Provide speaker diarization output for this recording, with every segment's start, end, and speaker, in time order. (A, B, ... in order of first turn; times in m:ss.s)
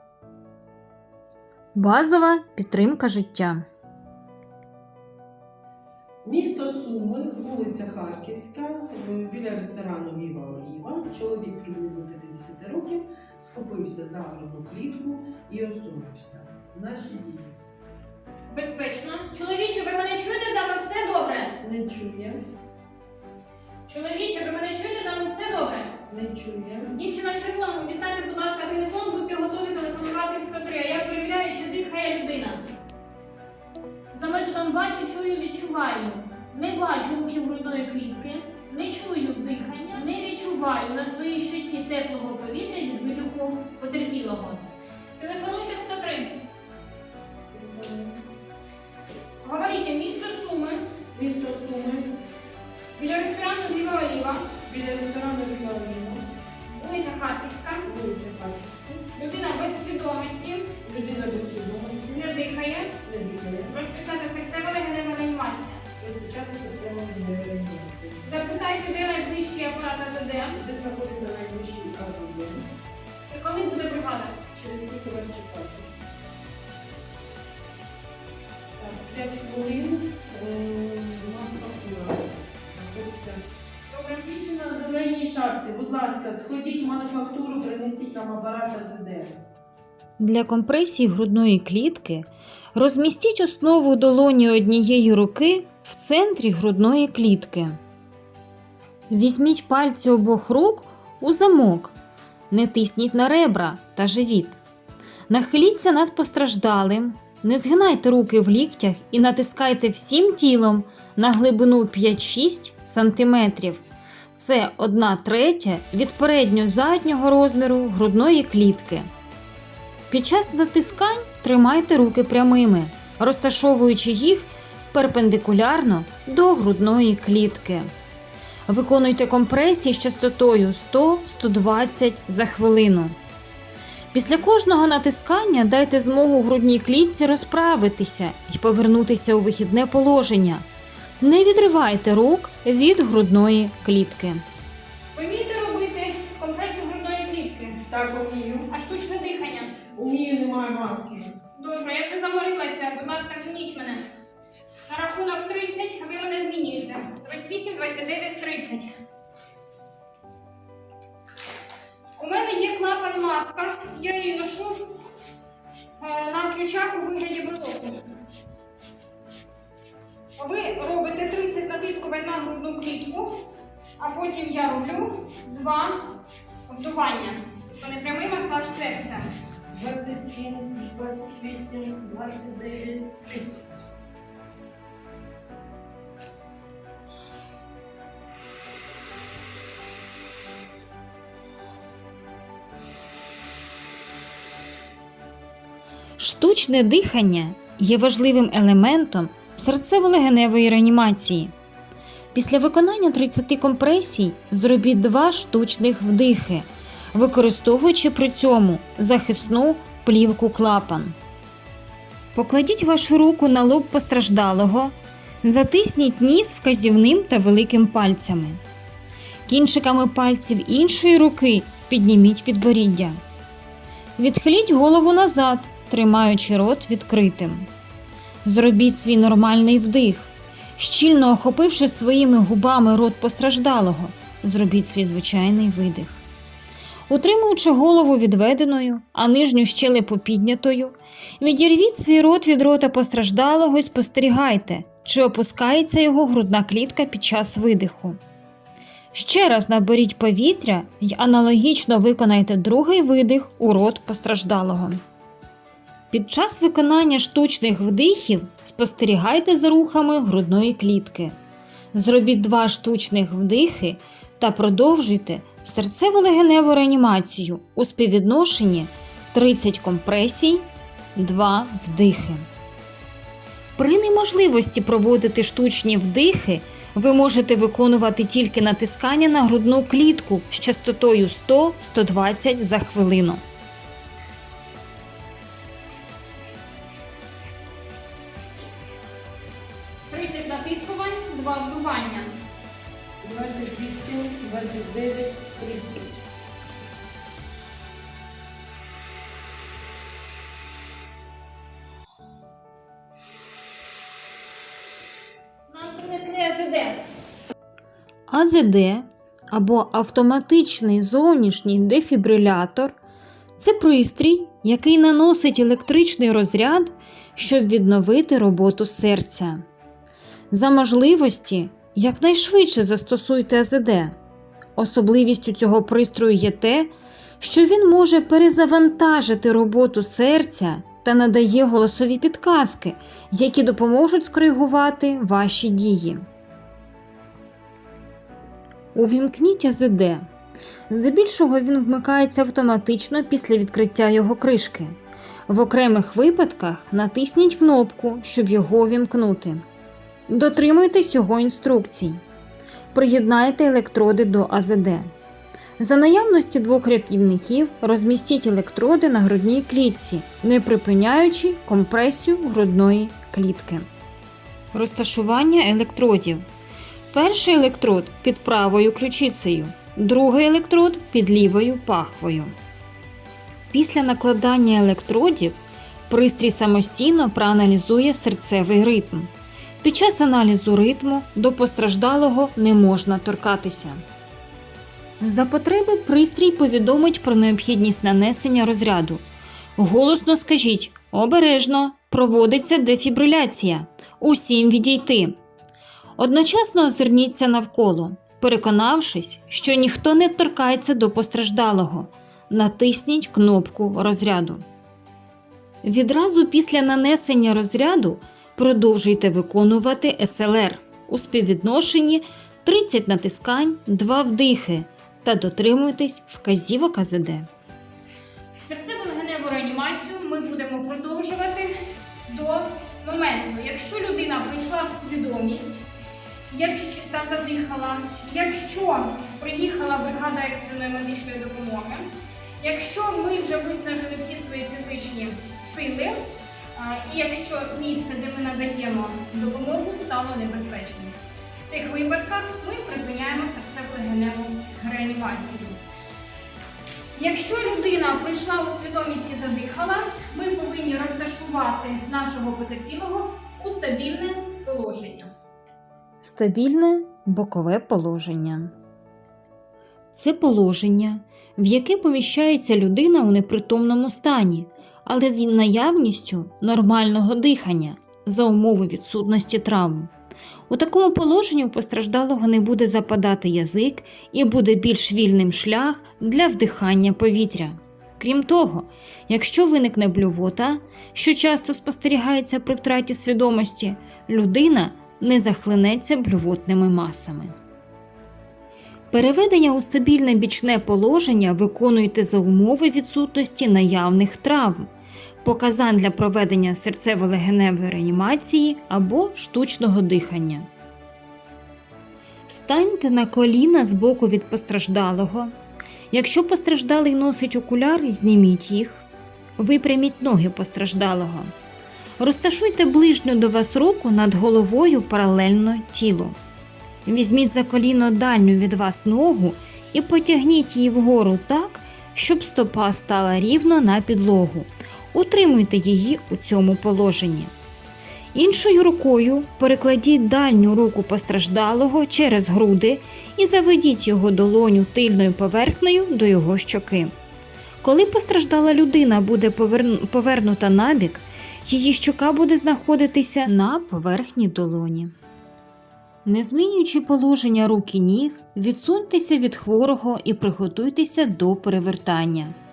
0:01.7-0:03.6 A
0:06.2-0:17.5 B
0:18.5-0:21.6 C
0:21.6-0:22.4 B
0:23.9-0:26.0 C
0:26.1-0:26.9 B
0:26.9-0:32.6 C
0:34.1-0:44.6 C
0:45.2-0:46.4 C
0:47.5-0:48.1 B
0:49.4-0:50.8 C
0:51.1-0:52.1 B
0:53.0-0:54.5 C
0:54.6-0:56.2 B
0:56.7-0:57.9 C
0:57.8-0:59.0 B
0:59.1-1:00.7 C
1:00.8-1:02.2 B
1:02.1-1:03.0 C
1:03.0-1:03.8 B
1:03.7-1:05.8 C
1:06.0-1:08.3 B
1:08.2-1:10.6 C
1:10.5-1:12.7 B
1:13.3-1:14.4 C
1:14.5-1:15.9 B
1:18.8-1:23.4 B
1:24.0-1:29.4 B
1:30.2-1:37.8 A
1:39.1-1:41.9 A
1:42.5-1:44.6 A
1:45.3-1:59.1 A
2:00.1-2:07.9 A
2:08.7-2:13.2 A
2:14.1-2:20.6 A
2:21.2-2:24.4 A
2:25.1-2:27.8 C
2:27.9-2:28.7 B
2:28.7-2:29.8 C
2:29.8-2:31.4 B
2:31.5-2:34.0 C
2:34.9-2:38.9 C
2:42.2-2:45.0 C
2:46.0-2:48.0 C
2:50.4-2:53.4 C
2:54.0-2:59.3 C
2:59.7-3:03.8 B
3:16.2-3:21.5 A
3:22.3-3:31.2 A
3:32.3-3:38.6 A
3:39.4-3:43.2 A
3:44.2-3:47.7 A
3:48.4-3:56.2 A
3:57.1-4:08.2 A
4:09.1-4:15.0 A
4:16.1-4:21.4 A
4:21.9-4:32.5 A
4:33.8-4:43.4 A
4:50.1-4:52.3 C
4:53.2-4:56.2 B
5:05.7-5:07.0 C
5:08.3-5:13.0 A
5:13.6-5:19.6 A
5:20.5-5:24.2 A
5:24.8-5:36.2 A
5:38.9-5:40.2 A
5:40.9-5:49.6 A
5:50.3-5:52.2 A
5:52.9-5:55.1 A
5:55.8-6:03.8 A
6:04.7-6:06.4 A
6:07.1-6:12.5 A
6:13.7-6:15.6 A
6:16.1-6:19.3 A
6:19.8-6:24.0 A
6:25.2-6:29.2 A
6:29.8-6:35.4 A
6:36.2-6:44.6 A
6:45.8-6:57.5 A
6:58.6-7:01.7 C
7:02.3-7:05.8 C
7:06.5-7:12.1 C
7:12.6-7:16.2 C
7:16.7-7:21.1 C
7:21.7-7:25.8 C
7:27.1-7:35.3 C
7:36.2-7:38.7 A
7:40.1-7:50.1 A
7:50.7-8:07.5 A
8:09.1-8:14.9 A
8:15.4-8:20.7 A
8:22.5-8:25.5 A
8:26.1-8:29.0 A
8:29.6-8:31.5 A
8:32.2-8:36.4 A
8:37.0-8:47.5 A
8:48.3-8:57.1 A
8:57.8-9:05.1 A
9:06.2-9:12.6 A